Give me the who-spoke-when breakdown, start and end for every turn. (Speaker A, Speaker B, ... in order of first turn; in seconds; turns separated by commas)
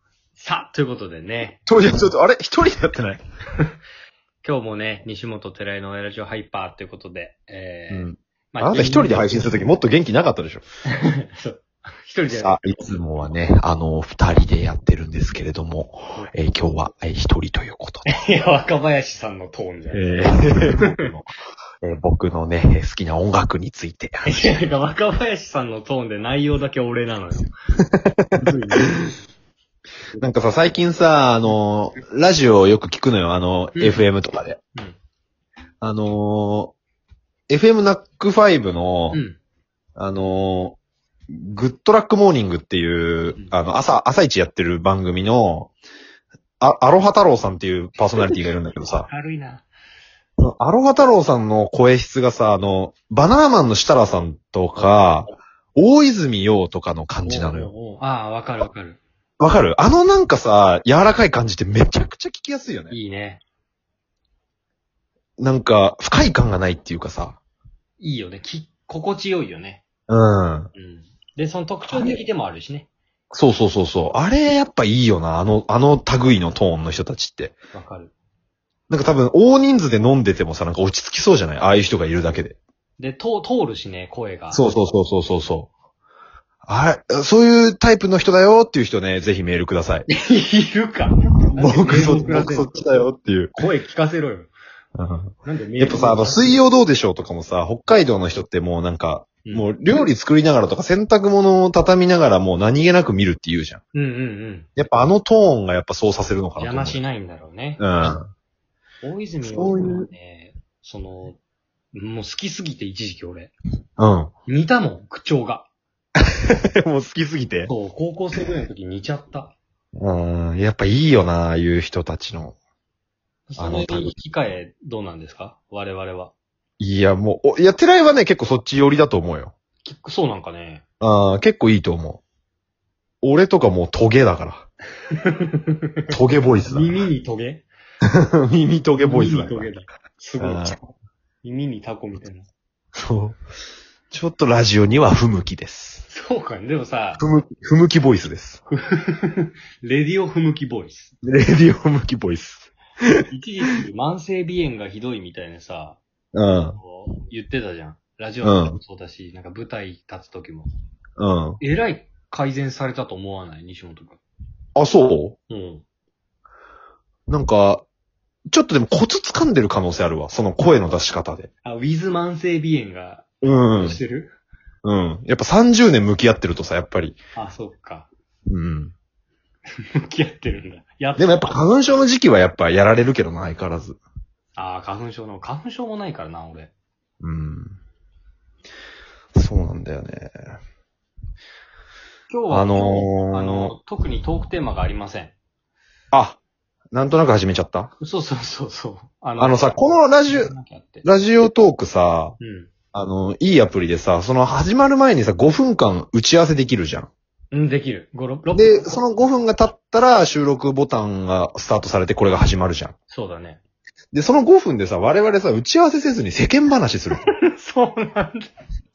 Speaker A: 0.3-1.6, Speaker B: 1.6-3.2, Speaker A: 4.4-9.6, Speaker B: 7.9-10.6, Speaker A: 10.9-12.6, Speaker B: 12.3-18.1, Speaker A: 18.1-20.9, Speaker B: 19.9-21.3, Speaker B: 21.8-24.6, Speaker A: 24.2-27.5, Speaker B: 28.0-28.9, Speaker A: 28.4-29.2, Speaker B: 30.2-34.6, Speaker A: 33.7-34.1, Speaker B: 35.8-36.7, Speaker B: 37.5-39.2, Speaker A: 39.1-39.4, Speaker B: 40.0-40.8, Speaker B: 41.3-45.7, Speaker B: 46.6-49.1, Speaker A: 48.1-49.7, Speaker B: 50.4-57.7, Speaker A: 57.2-59.0, Speaker B: 59.4-63.0, Speaker A: 62.9-63.4, Speaker B: 65.4-67.4, Speaker A: 68.0-69.8, Speaker B: 70.1-70.7, Speaker A: 70.7-72.9, Speaker B: 71.9-72.2, Speaker B: 73.3-77.5, Speaker A: 77.7-78.1, Speaker B: 78.9-82.6, Speaker A: 83.0-84.7, Speaker B: 84.5-85.7, Speaker B: 86.7-90.0, Speaker A: 90.1-92.8, Speaker B: 91.6-93.5, Speaker A: 93.5-94.5, Speaker B: 95.0-103.8, Speaker A: 95.4-96.4, Speaker A: 103.9-104.7, Speaker B: 104.8-107.0, Speaker A: 106.6-108.2, Speaker B: 107.8-108.3, Speaker A: 109.0-111.4, Speaker B: 109.4-110.1, Speaker A: 111.9-113.5, Speaker B: 114.0-114.3, Speaker A: 114.5-115.7, Speaker B: 116.2-117.7, Speaker A: 117.7-119.5, Speaker B: 119.9-122.5, Speaker A: 123.5-126.3, Speaker B: 123.6-124.1, Speaker B: 126.8-129.5, Speaker A: 129.8-130.8, Speaker B: 131.0-132.2, Speaker B: 133.2-134.7, Speaker A: 135.1-135.8, Speaker B: 136.1-137.0, Speaker A: 136.6-137.7, Speaker B: 138.0-139.7, Speaker A: 139.0-140.8, Speaker B: 140.4-140.8, Speaker A: 141.4-142.5, Speaker B: 142.9-143.4, Speaker B: 144.1-146.0, Speaker A: 146.1-147.2, Speaker B: 147.2-148.6, Speaker A: 148.7-151.1, Speaker B: 151.2-153.2, Speaker A: 153.3-156.0, Speaker B: 156.3-156.8, Speaker A: 156.8-160.7, Speaker B: 158.4-158.8, Speaker B: 161.2-161.6, Speaker A: 161.6-164.2, Speaker B: 164.8-165.4, Speaker A: 165.5-165.8, Speaker B: 167.3-167.8, Speaker B: 168.5-171.5, Speaker A: 171.6-174.3, Speaker B: 173.4-174.0, Speaker B: 174.8-177.2, Speaker A: 177.3-178.1, Speaker B: 178.5-178.9, Speaker A: 179.9-181.6, Speaker B: 181.2-184.0, Speaker A: 184.6-186.7, Speaker B: 187.2-187.8, Speaker B: 189.3-190.3, Speaker A: 192.3-195.3, Speaker B: 192.5-193.8, Speaker B: 196.1-196.4, Speaker B: 196.9-197.9, Speaker A: 198.0-201.0, Speaker B: 199.4-200.5, Speaker B: 201.0-202.4, Speaker A: 202.4-202.7, Speaker B: 202.9-207.1, Speaker A: 207.5-209.0, Speaker B: 208.5-212.9, Speaker A: 213.1-213.6, Speaker B: 214.1-217.2, Speaker A: 217.2-218.5